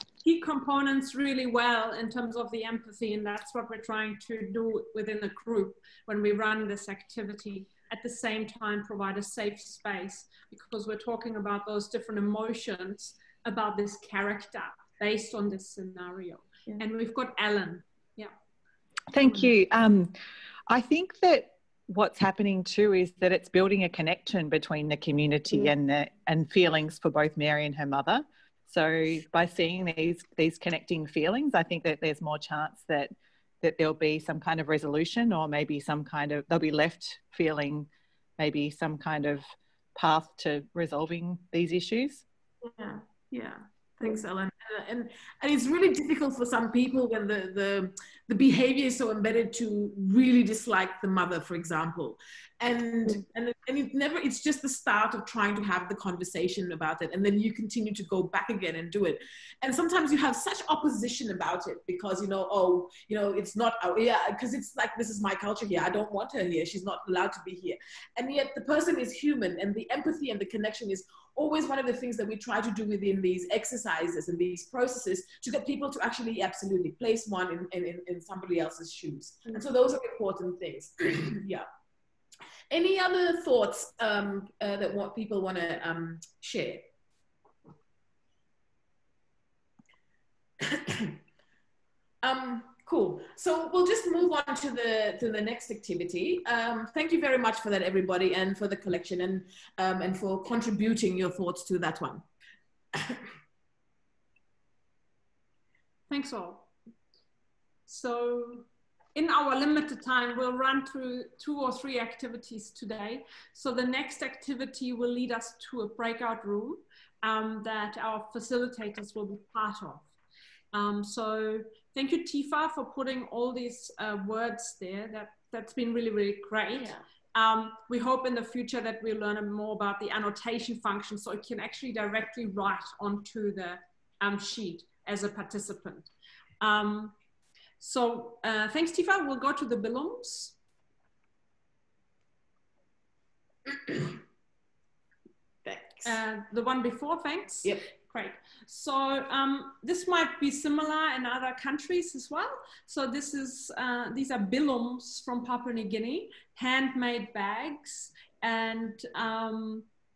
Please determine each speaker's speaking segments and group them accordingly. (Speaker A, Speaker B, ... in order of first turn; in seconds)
Speaker A: 0.2-18.3, 19.2-19.5, 106.1-106.7, 107.9-120.1, 120.7-136.1, 136.6-137.1, 137.8-140.5, 146.0-159.9
Speaker B: 19.1-20.1, 20.7-42.2
Speaker C: 42.7-81.6, 82.7-86.9, 90.6-91.2, 92.2-102.2, 126.8-127.0, 143.7-144.2, 145.6-146.1